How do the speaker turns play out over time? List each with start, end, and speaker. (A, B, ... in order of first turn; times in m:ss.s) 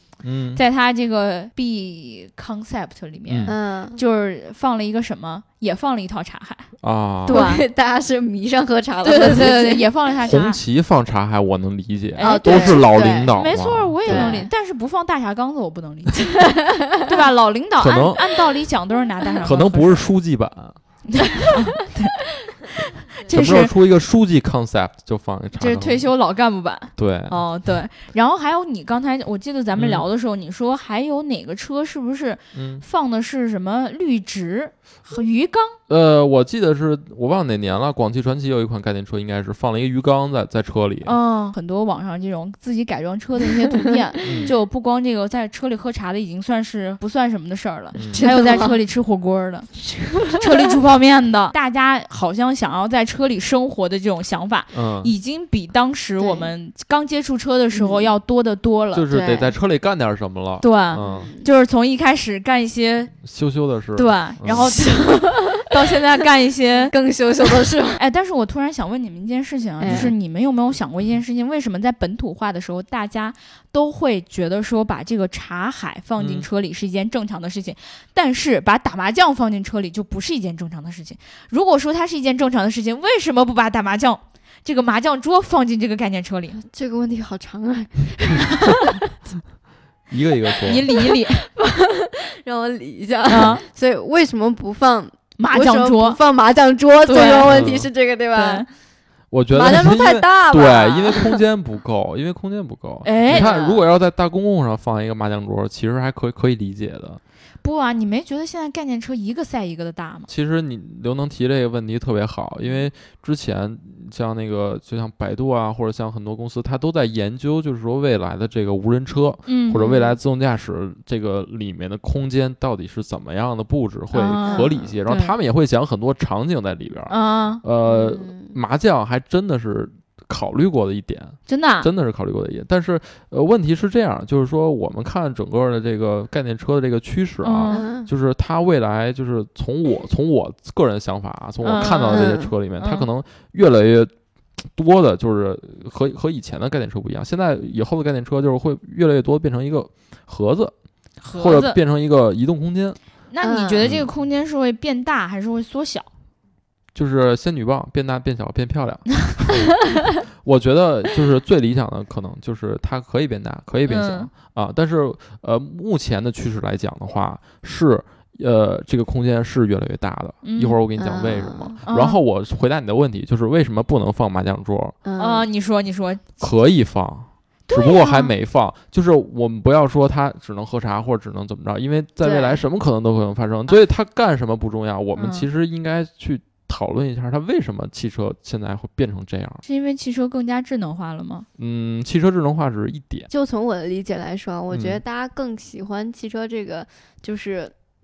0:00.2-0:00.6 A
0:00.6-0:06.7 B
0:03.3-0:03.5 A
0:03.5-0:04.0 C
0:06.8-0:07.5 A
0:07.2-0:07.6 B
0:07.3-0:09.9 C
0:09.0-0:10.6 B
0:10.2-0:14.5 A
0:12.2-0:16.5 B
0:12.2-0:13.3 C
0:14.0-0:14.5 C
0:16.4-0:17.1 C
0:17.0-0:20.1 B
0:17.8-0:18.2 A
0:19.4-0:20.8 A
0:21.1-0:22.2 B
0:23.2-0:23.7 B
0:23.3-0:26.0 A
0:25.6-0:35.8 B
0:27.0-0:27.4 A
0:29.8-0:30.0 A
0:32.5-0:32.8 A
0:35.9-0:41.2 A
0:41.0-0:49.7 B
0:44.2-0:44.5 A
0:48.0-0:48.3 A
0:48.0-0:48.8 C
0:49.8-0:50.7 C
0:50.3-0:59.1 B
0:54.7-0:55.1 A
0:56.2-0:56.5 C
0:57.7-0:58.1 C
0:58.9-1:01.3 A
0:59.1-0:59.5 C
1:00.6-1:03.1 B
1:01.0-1:01.5 C
1:03.2-1:04.8 A
1:04.0-1:07.0 B
1:04.7-1:05.6 C
1:06.9-1:08.0 C
1:08.0-1:26.6 B
1:09.8-1:10.1 C
1:09.8-1:10.2 A
1:16.2-1:16.5 A
1:26.6-1:28.8 C
1:28.3-1:28.7 B
1:30.1-1:30.8 A
1:30.7-1:31.5 B
1:31.0-1:38.7 C
1:33.3-1:33.6 B
1:35.4-1:36.2 B
1:37.0-1:37.5 B
1:37.4-1:37.9 A
1:38.3-1:38.7 B
1:39.3-1:47.2 A
1:39.5-1:41.4 C
1:39.6-1:40.0 B
1:43.0-1:43.5 B
1:43.3-1:43.8 C
1:47.6-1:50.3 B
1:50.3-2:24.1 A
1:59.5-2:00.0 B
1:59.7-2:00.2 C
2:04.1-2:05.3 B
2:04.4-2:04.9 C
2:07.1-2:07.6 B
2:07.8-2:08.6 C
2:11.5-2:11.9 B
2:17.4-2:17.9 B
2:17.7-2:18.1 C
2:21.6-2:23.1 B
2:22.1-2:22.5 C
2:24.6-2:30.7 A
2:31.2-2:31.8 B
2:31.3-2:33.0 A
2:33.3-2:36.1 B
2:33.4-2:33.9 C
2:33.8-2:34.1 A
2:37.0-2:55.0 A
2:43.9-2:44.3 B
2:50.4-2:50.8 B
2:51.0-2:51.8 C
2:51.9-2:52.2 B
2:55.0-2:55.5 C
2:55.2-2:56.4 B
2:56.4-3:09.6 A
2:57.7-2:58.3 B
3:02.2-3:02.6 C
3:05.2-3:05.5 B
3:09.6-3:11.5 B
3:11.6-3:13.3 A
3:13.3-3:17.7 C
3:14.7-3:15.0 A